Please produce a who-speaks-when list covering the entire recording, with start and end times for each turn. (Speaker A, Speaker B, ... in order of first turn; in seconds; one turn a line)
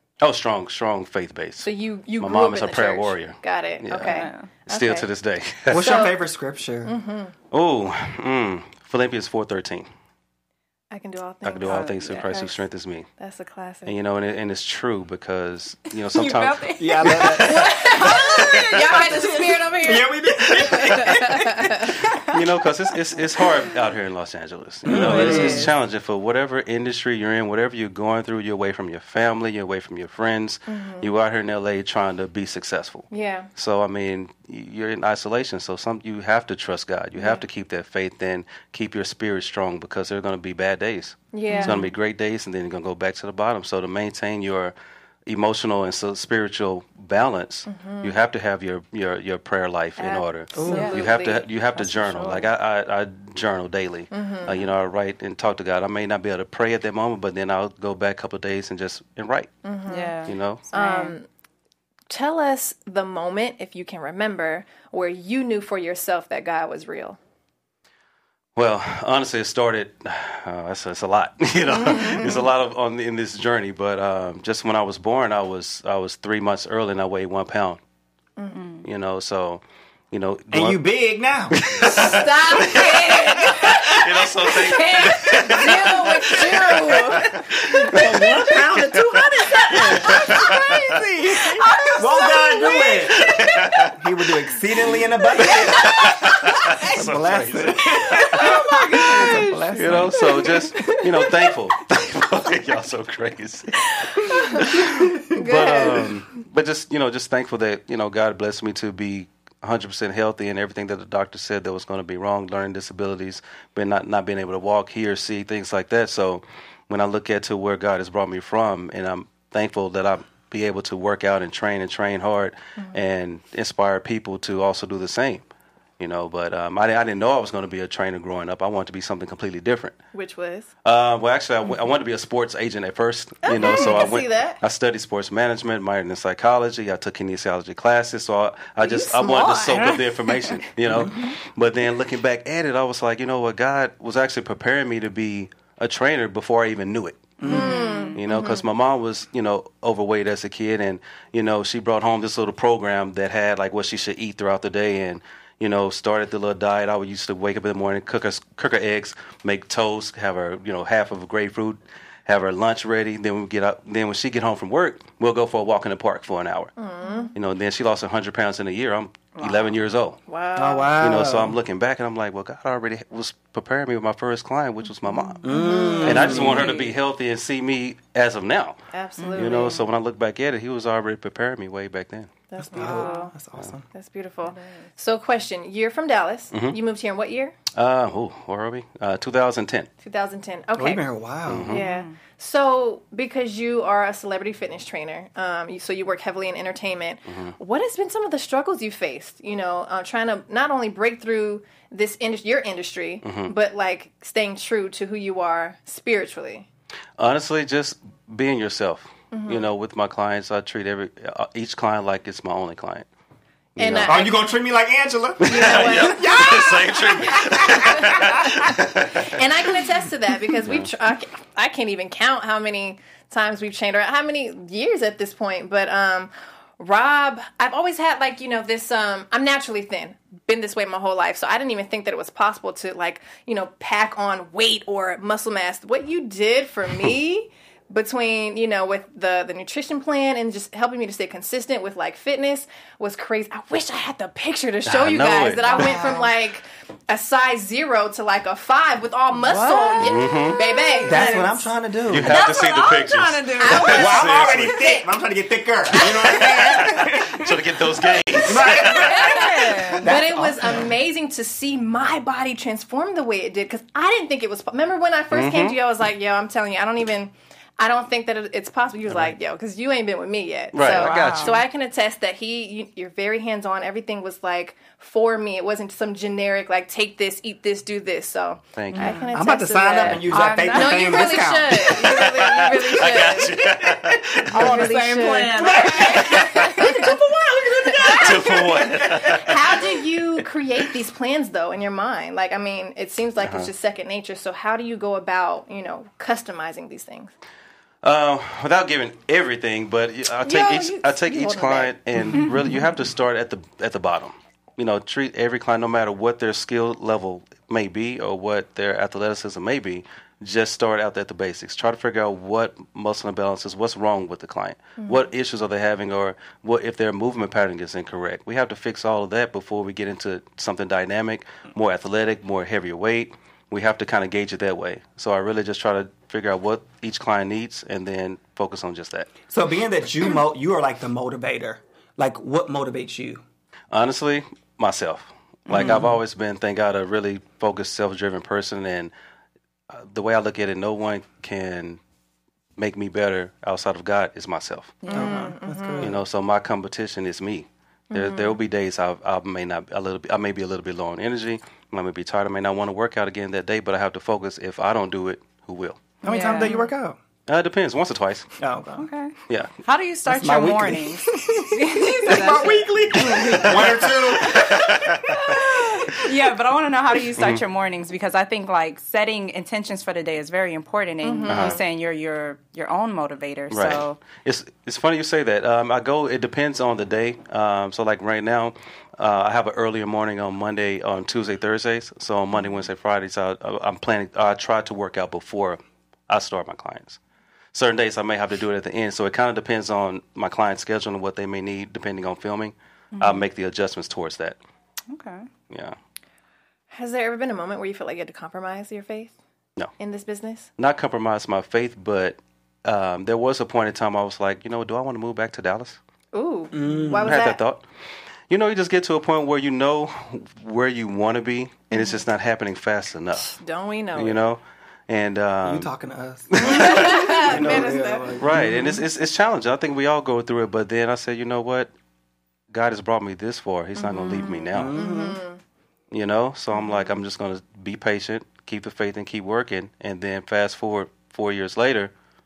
Speaker A: 0.2-6.0
Speaker B: 1.6-5.1
Speaker C: 4.0-4.5
Speaker D: 5.7-6.9
Speaker B: 5.8-6.1
Speaker B: 6.8-7.3
Speaker A: 7.5-9.9
Speaker B: 10.9-12.6
Speaker A: 11.4-13.1
Speaker C: 11.6-12.4
Speaker B: 13.2-13.9
Speaker A: 13.8-17.6
Speaker C: 16.1-19.6
Speaker D: 16.8-17.9
Speaker B: 17.3-21.9
Speaker A: 18.4-18.9
Speaker D: 19.8-21.9
Speaker A: 22.3-44.7
Speaker D: 24.8-25.7
Speaker C: 24.9-25.7
Speaker B: 30.7-31.1
Speaker B: 33.1-33.5
Speaker B: 41.3-41.8
Speaker C: 41.5-41.9
Speaker A: 45.2-59.5
Speaker B: 47.7-48.1
Speaker B: 50.0-51.9
Speaker D: 50.5-50.9
Speaker C: 50.6-51.0
Speaker C: 51.8-52.5
Speaker B: 54.1-54.6
Speaker B: 59.6-60.1
Speaker C: 59.9-61.2
Speaker A: 60.2-60.6
Speaker B: 60.7-61.2
Speaker B: 62.1-67.2
Speaker A: 68.5-77.8
Speaker B: 71.7-72.5
Speaker C: 78.5-78.8
Speaker A: 78.8-80.8
Speaker D: 80.5-82.1
Speaker A: 81.5-88.2
Speaker B: 81.8-90.6
Speaker D: 87.9-93.3
Speaker A: 89.7-90.7
Speaker C: 91.4-92.9
Speaker B: 91.7-93.0
Speaker A: 93.1-93.9
Speaker D: 93.8-100.5
Speaker B: 95.4-95.8
Speaker A: 95.4-98.4
Speaker B: 98.1-99.6
Speaker C: 98.4-99.6
Speaker A: 99.7-125.5
Speaker B: 100.6-101.0
Speaker B: 104.3-106.1
Speaker A: 126.0-130.0
Speaker B: 130.1-130.7
Speaker A: 130.8-147.4
Speaker B: 133.4-134.6
Speaker C: 133.6-134.0
Speaker B: 138.8-140.0
Speaker C: 139.2-139.9
Speaker D: 140.9-141.3
Speaker D: 147.4-147.8
Speaker C: 147.4-148.2
Speaker B: 147.5-148.6
Speaker A: 148.1-166.7
Speaker B: 166.8-167.3
Speaker C: 167.0-167.3
Speaker A: 167.3-170.2
Speaker C: 169.4-169.7
Speaker B: 170.3-170.9
Speaker D: 170.6-171.6
Speaker A: 171.0-175.4
Speaker C: 175.1-176.9
Speaker D: 175.4-176.7
Speaker B: 175.5-176.4
Speaker A: 176.0-178.8
Speaker B: 178.9-179.8
Speaker C: 179.2-179.8
Speaker A: 179.3-182.3
Speaker B: 182.5-183.3
Speaker D: 182.6-183.8
Speaker C: 182.8-183.3
Speaker B: 183.9-187.5
Speaker C: 184.4-184.8
Speaker A: 186.5-186.8
Speaker A: 187.7-189.9
Speaker B: 190.0-191.1
Speaker D: 190.8-191.8
Speaker A: 191.5-191.8
Speaker B: 191.7-206.7
Speaker C: 191.7-192.2
Speaker A: 197.3-197.5
Speaker A: 203.2-203.5
Speaker A: 207.2-213.1
Speaker B: 209.3-209.7
Speaker A: 213.8-214.2
Speaker B: 213.8-214.4
Speaker D: 214.0-218.8
Speaker A: 215.4-219.4
Speaker B: 215.4-216.6
Speaker B: 219.1-251.6
Speaker A: 220.6-220.9
Speaker A: 244.8-246.1
Speaker C: 245.7-246.3
Speaker C: 249.3-251.6
Speaker A: 250.0-250.6
Speaker D: 251.0-252.4
Speaker A: 252.1-254.9
Speaker C: 252.2-254.3
Speaker B: 253.6-254.9
Speaker D: 253.8-257.6
Speaker A: 256.0-259.4
Speaker C: 256.5-256.8
Speaker D: 258.4-260.9
Speaker B: 258.7-283.8
Speaker C: 258.9-260.1
Speaker A: 265.3-265.8
Speaker A: 270.7-271.6
Speaker C: 270.8-271.6
Speaker A: 278.8-279.1
Speaker C: 278.9-279.4
Speaker D: 279.3-282.2
Speaker C: 280.1-281.5
Speaker A: 281.7-284.9
Speaker B: 284.5-287.1
Speaker C: 284.5-287.0
Speaker D: 285.6-289.4
Speaker A: 286.0-286.8
Speaker B: 287.9-288.6
Speaker A: 288.0-289.6
Speaker B: 289.2-297.3
Speaker A: 293.4-293.7
Speaker A: 298.0-329.3
Speaker B: 300.4-301.9
Speaker D: 329.5-333.4
Speaker A: 333.9-339.1
Speaker D: 335.7-336.2
Speaker A: 339.9-342.0
Speaker A: 342.8-345.0
Speaker C: 345.0-345.5
Speaker B: 345.1-346.1
Speaker D: 345.1-346.2
Speaker A: 346.0-356.2
Speaker B: 348.1-348.6
Speaker C: 356.2-356.9
Speaker D: 356.2-357.2
Speaker A: 357.5-358.5
Speaker D: 358.6-359.1
Speaker C: 358.9-364.0
Speaker A: 359.5-359.7
Speaker D: 360.3-365.6
Speaker A: 363.4-365.5
Speaker C: 365.3-374.2
Speaker A: 367.4-367.6
Speaker B: 371.2-371.8
Speaker A: 371.5-371.8
Speaker A: 373.7-387.2
Speaker A: 387.7-394.6
Speaker C: 393.1-393.4
Speaker C: 395.1-395.5
Speaker A: 395.7-395.9
Speaker B: 396.9-399.3
Speaker B: 400.0-400.7
Speaker A: 400.8-406.0
Speaker B: 406.3-407.6
Speaker D: 406.7-407.4
Speaker A: 407.2-407.8
Speaker A: 408.5-413.6
Speaker B: 413.4-414.4
Speaker A: 414.1-415.9
Speaker D: 415.6-419.0
Speaker A: 416.5-421.9
Speaker B: 416.6-418.4
Speaker A: 422.7-424.9
Speaker C: 424.0-424.7
Speaker D: 424.7-425.4
Speaker B: 424.9-425.6
Speaker A: 426.1-432.1